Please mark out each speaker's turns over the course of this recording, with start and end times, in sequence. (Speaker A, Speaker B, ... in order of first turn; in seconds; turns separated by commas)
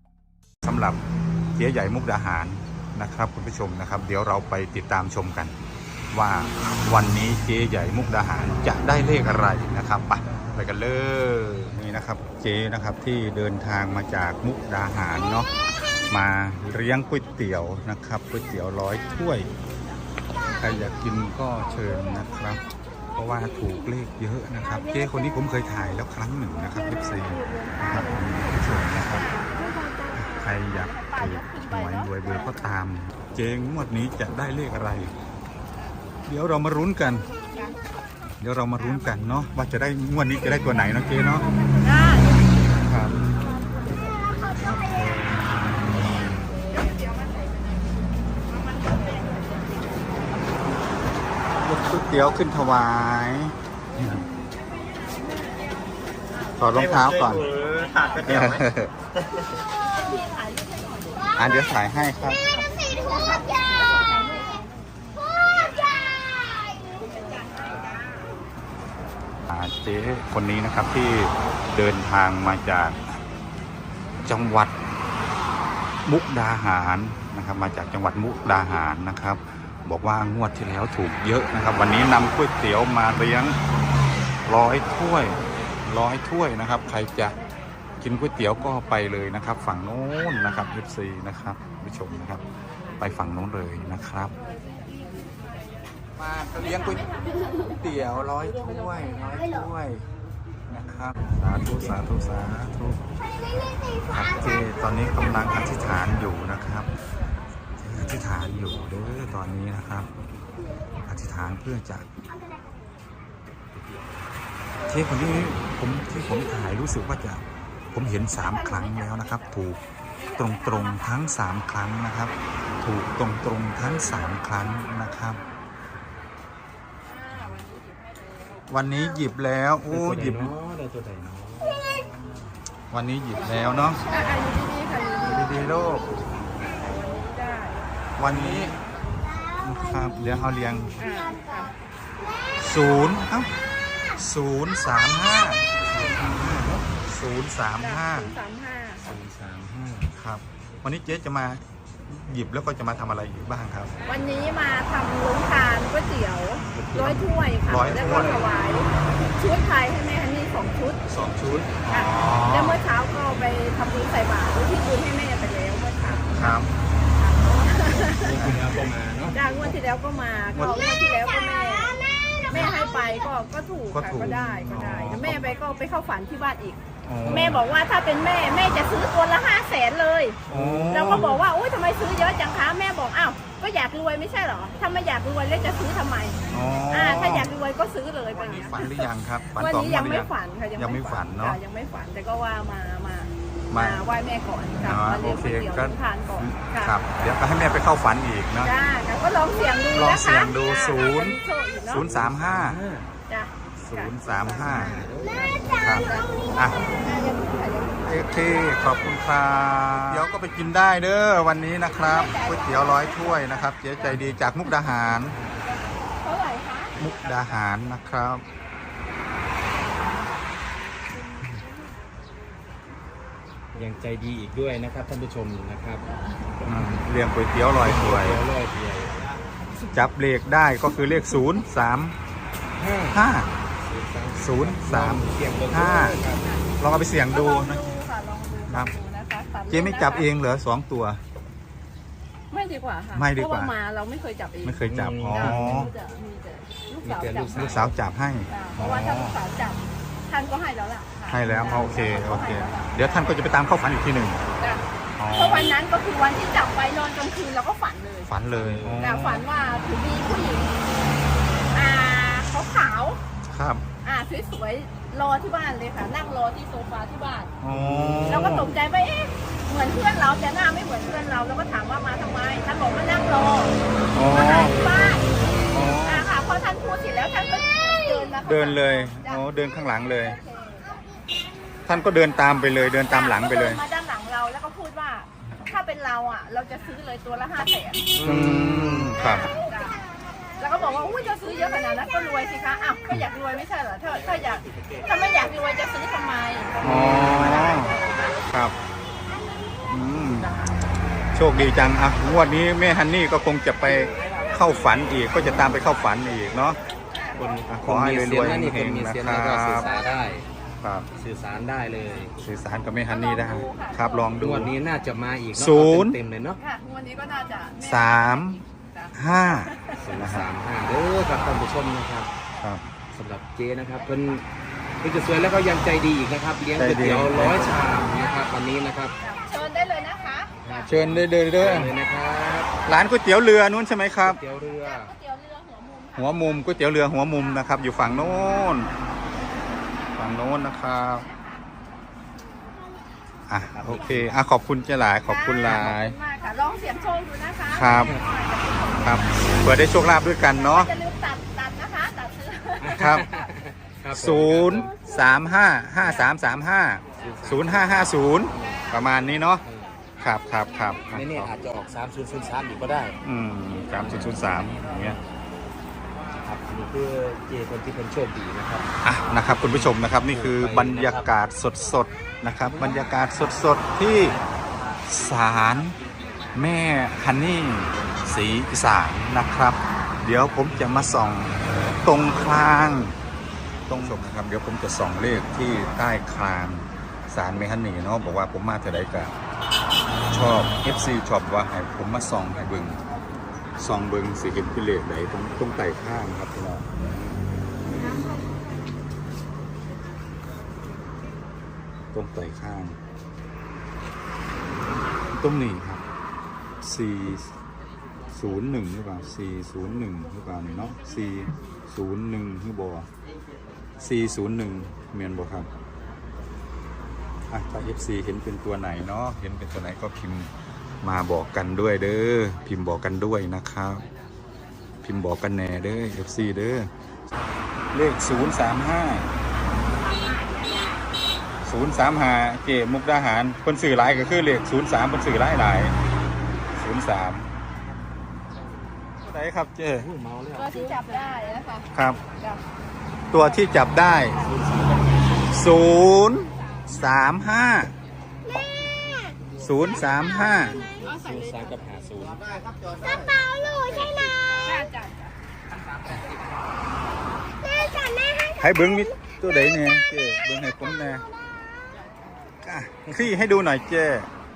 Speaker A: 0.6-1.0, Speaker A: 1.6-5.5, Speaker A: 6.1-15.5, Speaker A: 16.1-19.5, Speaker A: 20.5-29.3, Speaker B: 29.1-29.8, Speaker A: 30.1-35.1, Speaker B: 30.7-32.2, Speaker A: 36.3-37.3, Speaker A: 38.4-41.5, Speaker B: 41.8-42.4, Speaker A: 42.8-43.3, Speaker A: 44.6-45.7, Speaker B: 46.7-47.8, Speaker B: 48.6-50.0, Speaker A: 51.6-54.2, Speaker B: 54.9-55.1, Speaker A: 56.6-57.5, Speaker B: 57.4-58.5, Speaker A: 58.2-58.9, Speaker B: 59.9-61.4, Speaker A: 61.3-62.4, Speaker B: 62.6-66.1, Speaker B: 67.0-68.3, Speaker A: 69.5-73.2, Speaker A: 74.2-74.7, Speaker A: 76.0-83.6, Speaker A: 84.5-87.4, Speaker A: 88.0-92.4, Speaker A: 93.0-94.3, Speaker A: 96.2-100.1, Speaker A: 100.7-103.0, Speaker A: 104.1-106.9, Speaker A: 107.8-110.1, Speaker A: 111.1-112.1, Speaker A: 114.9-119.8, Speaker A: 120.3-125.4, Speaker A: 128.7-130.5, Speaker C: 129.9-132.1, Speaker A: 132.9-134.0, Speaker B: 134.1-135.6, Speaker A: 135.2-136.1, Speaker B: 136.7-137.9, Speaker A: 138.2-138.8, Speaker C: 138.2-138.8, Speaker A: 139.6-141.0, Speaker B: 141.0-141.7, Speaker A: 142.6-143.5, Speaker A: 144.2-145.7, Speaker C: 145.9-146.9, Speaker A: 146.9-148.3, Speaker B: 147.8-149.0, Speaker C: 149.0-150.1, Speaker A: 150.1-153.9, Speaker B: 154.1-161.0, Speaker C: 156.7-157.2, Speaker A: 157.7-158.4, Speaker C: 157.9-158.4, Speaker A: 161.1-162.8, Speaker B: 161.9-166.6, Speaker A: 166.3-166.7, Speaker B: 167.2-168.4, Speaker C: 168.0-169.8, Speaker A: 168.4-168.7, Speaker B: 169.3-172.0, Speaker A: 170.6-170.9, Speaker B: 172.5-186.4, Speaker A: 172.5-172.8, Speaker A: 173.9-175.6, Speaker C: 177.1-177.7, Speaker A: 177.2-177.6, Speaker C: 180.5-181.3, Speaker A: 180.5-181.4, Speaker A: 186.5-187.5, Speaker B: 186.9-197.0, Speaker A: 188.3-191.6, Speaker A: 193.7-194.1, Speaker A: 194.8-198.7, Speaker B: 198.6-202.1, Speaker A: 199.9-202.8, Speaker C: 202.0-203.1, Speaker B: 203.3-208.3, Speaker A: 203.8-205.1, Speaker C: 204.2-205.7, Speaker A: 205.8-206.8, Speaker A: 208.1-215.4, Speaker B: 211.9-214.2, Speaker C: 214.1-214.4, Speaker C: 215.1-215.8, Speaker B: 216.1-217.0, Speaker A: 217.0-218.4, Speaker C: 223.7-227.0, Speaker A: 226.7-228.4, Speaker C: 227.7-229.9, Speaker A: 229.9-232.2, Speaker C: 232.8-236.5, Speaker A: 233.1-233.5, Speaker A: 234.3-236.2, Speaker A: 236.8-237.8, Speaker B: 237.3-240.3, Speaker A: 239.7-241.2, Speaker B: 242.5-244.8, Speaker A: 243.1-243.7, Speaker A: 244.6-245.9, Speaker C: 244.9-245.9, Speaker B: 245.3-247.8, Speaker C: 247.0-247.9, Speaker A: 247.5-249.4, Speaker B: 248.5-253.4, Speaker A: 251.3-254.4, Speaker C: 251.5-251.9, Speaker B: 254.6-258.4, Speaker A: 255.2-255.7, Speaker A: 258.3-259.5, Speaker C: 258.5-259.1, Speaker B: 259.0-260.8, Speaker B: 261.7-263.2, Speaker A: 263.5-263.8, Speaker B: 264.0-267.5, Speaker A: 267.6-268.7, Speaker C: 267.7-268.5, Speaker B: 268.3-273.8, Speaker A: 274.1-275.0, Speaker B: 274.3-275.2, Speaker A: 275.7-276.3, Speaker B: 276.0-279.5, Speaker A: 278.4-280.4, Speaker B: 280.1-281.4, Speaker A: 281.9-283.8, Speaker B: 283.1-288.1, Speaker C: 288.1-289.2, Speaker A: 288.2-289.5, Speaker B: 289.2-290.0, Speaker B: 290.6-298.4, Speaker A: 296.8-297.9, Speaker C: 296.9-297.4, Speaker A: 298.5-298.8, Speaker A: 299.9-300.6, Speaker A: 301.3-306.8, Speaker B: 307.1-307.4, Speaker C: 307.4-310.5, Speaker A: 307.7-309.9, Speaker A: 310.8-311.1, Speaker C: 311.2-312.3, Speaker A: 312.4-314.8, Speaker B: 313.1-314.7, Speaker C: 314.4-316.6, Speaker A: 315.5-316.2, Speaker B: 316.6-320.0, Speaker A: 317.8-318.6, Speaker A: 319.1-320.5, Speaker C: 319.9-322.3, Speaker C: 323.1-324.4, Speaker C: 325.0-329.1, Speaker A: 326.8-327.8, Speaker B: 329.2-330.8, Speaker C: 330.6-332.8, Speaker A: 330.9-331.9, Speaker A: 332.9-334.4, Speaker C: 334.2-335.1, Speaker B: 334.8-337.7, Speaker A: 336.2-338.9, Speaker A: 340.1-341.3, Speaker B: 341.1-341.6, Speaker A: 343.5-346.1, Speaker C: 343.6-344.4, Speaker B: 345.3-349.7, Speaker A: 347.7-348.1, Speaker A: 349.0-350.9, Speaker B: 350.5-353.5, Speaker C: 352.8-354.9, Speaker A: 352.9-353.2, Speaker A: 354.1-359.6, Speaker B: 356.0-356.3, Speaker C: 357.2-359.0, Speaker C: 359.6-360.0, Speaker A: 360.2-361.5, Speaker C: 361.1-363.2, Speaker A: 363.2-365.2, Speaker C: 363.9-365.2, Speaker C: 366.4-368.9, Speaker A: 369.0-374.4, Speaker C: 369.4-371.3, Speaker C: 372.7-373.1, Speaker A: 375.1-376.0, Speaker A: 376.6-383.2, Speaker A: 383.9-389.3, Speaker A: 390.3-393.0, Speaker A: 393.8-396.9, Speaker A: 402.1-403.0, Speaker A: 405.3-406.0, Speaker A: 406.8-407.5, Speaker A: 408.3-413.1, Speaker A: 414.0-415.7, Speaker A: 417.5-420.5, Speaker A: 421.0-424.1, Speaker A: 425.0-426.9, Speaker A: 427.9-429.3, Speaker A: 431.6-435.9, Speaker A: 436.8-437.5, Speaker A: 439.2-440.1, Speaker C: 440.0-441.2, Speaker B: 440.6-441.9, Speaker A: 441.9-442.2, Speaker A: 443.3-444.4, Speaker B: 443.8-444.6, Speaker C: 444.3-445.5, Speaker A: 445.4-447.9, Speaker A: 449.6-450.8, Speaker C: 450.7-452.5, Speaker B: 454.6-455.3, Speaker C: 455.9-456.5, Speaker A: 458.6-461.2, Speaker A: 462.6-464.3